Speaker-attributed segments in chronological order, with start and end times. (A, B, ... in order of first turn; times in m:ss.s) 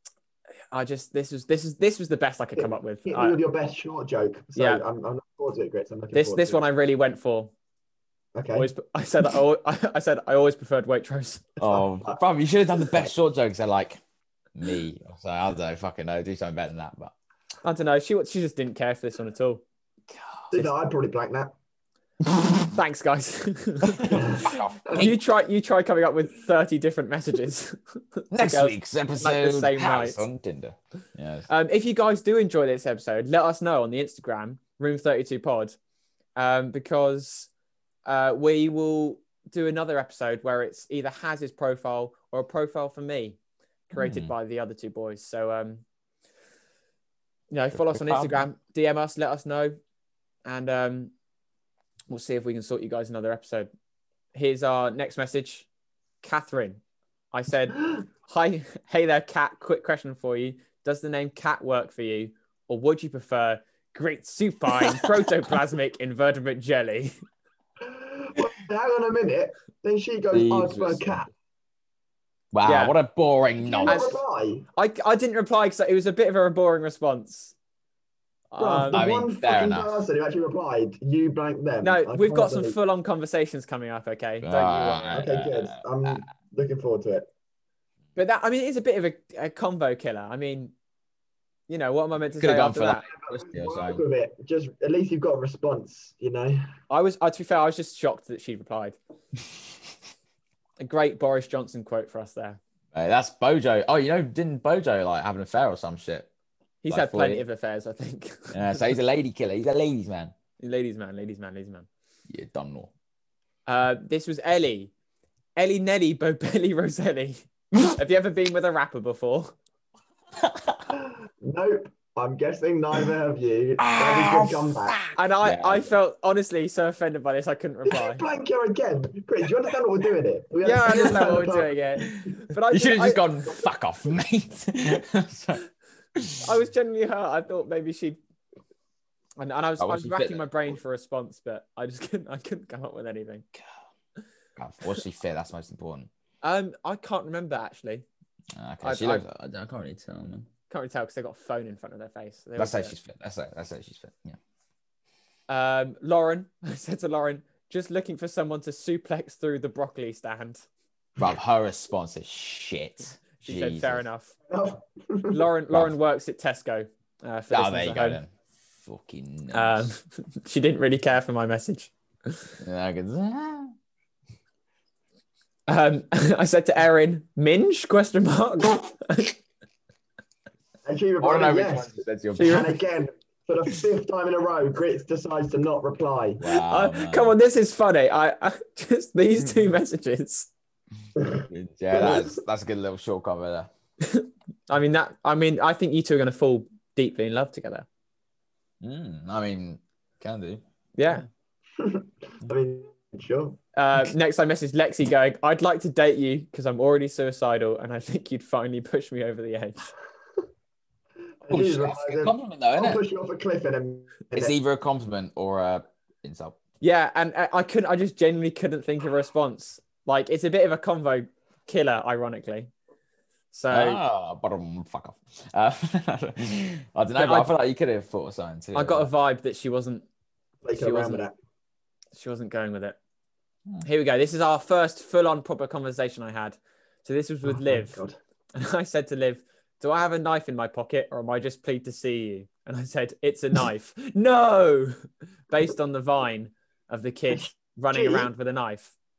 0:00.7-0:03.4 A
0:02.6-0:06.6 B
0:04.6-0:04.8 A
0:06.1-0:07.5 A
0:08.4-0:08.7 B
0:08.5-0:11.5 A
0:11.6-0:14.0 C
0:11.6-0:12.2 B
0:14.6-0:17.1 C
0:17.6-0:19.6 A
0:20.5-0:21.5 B
0:22.7-0:30.2 A
0:23.9-0:25.2 C
0:24.1-0:25.1 B
0:28.3-0:31.5 C
0:31.5-0:35.8 A
0:36.4-0:37.5 A
0:38.1-0:43.4 A
0:43.9-0:45.8 A
0:43.9-0:44.3 C
0:47.5-0:49.8 A
0:47.8-0:48.5 C
0:50.5-0:51.1 A
0:52.1-0:53.7 A
0:54.3-0:55.7 A
0:56.2-0:56.8 A
0:57.3-1:07.1 A
1:07.8-1:11.3 B
1:10.3-1:11.2 C
1:12.5-1:14.1 C
1:12.6-1:13.0 A
1:13.6-1:14.7 B
1:13.9-1:14.2 A
1:14.8-1:17.6 A
1:18.5-1:19.0 A
1:18.6-1:22.8 B
1:18.9-1:20.0 C
1:21.8-1:25.2 A
1:24.4-1:26.2 C
1:25.1-1:27.3 B
1:28.2-1:30.7 A
1:31.7-1:33.1 A
1:32.4-1:34.0 C
1:33.1-1:36.7 B
1:36.9-1:39.0 A
1:40.8-1:42.6 A
1:42.9-1:46.3 C
1:46.8-1:48.9 A
1:46.9-1:47.4 C
1:48.5-1:50.3 C
1:50.6-1:51.9 A
1:52.3-1:52.9 C
1:53.7-1:54.9 A
1:55.6-1:59.5 A
2:00.4-2:00.8 C
2:00.9-2:05.0 B
2:03.8-2:05.9 C
2:05.2-2:08.2 A
2:07.9-2:11.7 B
2:10.6-2:13.2 A
2:12.0-2:15.6 C
2:16.2-2:16.5 C
2:16.4-2:18.2 A
2:19.4-2:23.5 A
2:19.8-2:20.6 C
2:24.6-2:26.1 C
2:26.4-2:28.1 A
2:28.6-2:30.5 C
2:28.8-2:29.2 A
2:30.7-2:33.0 A
2:32.6-2:34.4 C
2:35.5-2:40.6 A
2:41.2-2:44.0 C
2:43.4-2:44.3 A
2:44.5-2:45.5 B
2:45.3-2:48.2 A
2:47.5-2:48.3 C
2:48.8-2:49.9 C
2:49.5-2:52.5 A
2:52.6-2:53.7 C
2:55.7-2:59.3 A
3:00.8-3:06.4 B
3:01.2-3:02.7 C
3:02.4-3:02.7 A
3:06.4-3:07.4 C
3:06.5-3:10.5 A
3:11.3-3:12.3 B
3:11.4-3:13.7 C
3:14.0-3:17.9 A
3:18.8-3:20.6 C
3:21.0-3:21.3 A
3:21.8-3:23.6 B
3:23.8-3:29.9 A
3:31.4-3:34.6 B
3:31.5-3:33.0 C
3:34.3-3:36.6 C
3:36.8-3:42.7 A
3:43.5-3:44.0 A
3:43.7-3:49.1 C
3:47.2-3:47.5 A
3:48.7-3:50.0 A
3:50.6-3:51.4 B
3:50.7-3:51.2 A
3:52.2-3:53.0 A
3:53.8-3:58.0 A
3:57.4-3:58.2 B
3:58.6-4:05.0 A
4:05.5-4:08.9 A
4:07.9-4:08.3 B